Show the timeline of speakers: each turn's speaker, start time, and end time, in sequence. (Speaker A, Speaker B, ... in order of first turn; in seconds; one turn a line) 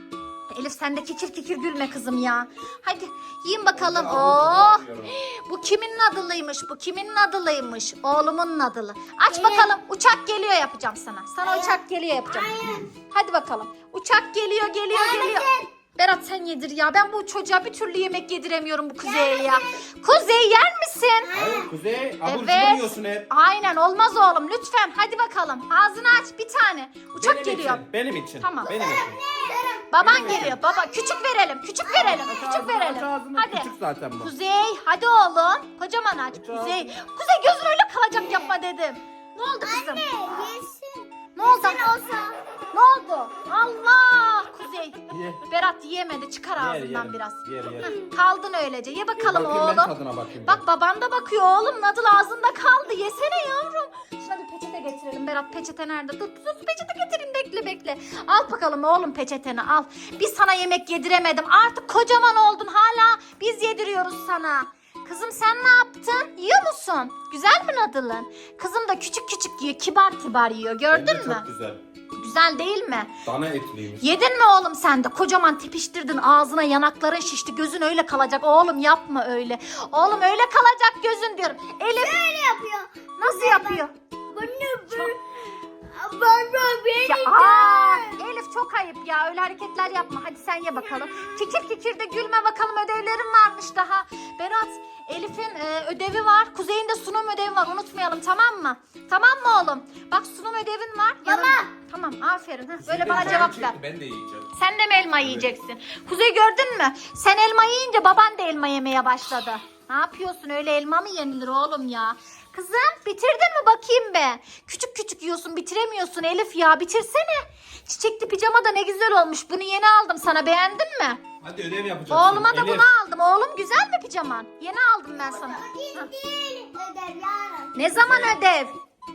Speaker A: 0.5-12.5
Speaker B: 3.7-5.1
Speaker C: 9.3-9.7
Speaker C: 11.4-12.9
Speaker A: 13.1-21.3
Speaker C: 14.9-15.7
Speaker C: 19.0-19.9
Speaker C: 21.2-21.7
Speaker B: 21.3-23.3
Speaker A: 22.2-27.8
Speaker B: 27.1-29.2
Speaker A: 28.4-28.7
Speaker C: 28.6-31.2
Speaker A: 29.9-33.7
Speaker B: 30.0-30.6
Speaker C: 31.9-32.3
Speaker B: 31.9-34.3
Speaker A: 34.2-40.0
Speaker B: 36.3-36.9
Speaker C: 39.6-42.4
Speaker A: 41.4-41.9
Speaker A: 42.7-49.9
Speaker B: 45.1-45.4
Speaker B: 46.6-47.9
Speaker C: 47.8-48.1
Speaker B: 49.2-50.6
Speaker A: 50.4-71.5
Speaker B: 70.9-71.8
Speaker A: 72.2-73.1
Speaker B: 73.2-74.0
Speaker A: 74.0-82.2
Speaker C: 82.0-85.2
Speaker A: 83.2-83.9
Speaker C: 85.9-88.2
Speaker A: 87.0-103.8
Speaker C: 91.1-91.4
Speaker C: 101.2-101.7
Speaker B: 102.8-104.5
Speaker A: 104.5-121.2
Speaker B: 105.2-105.5
Speaker B: 121.4-122.9
Speaker A: 122.1-126.1
Speaker C: 125.2-127.8
Speaker A: 127.7-128.7
Speaker B: 127.9-128.4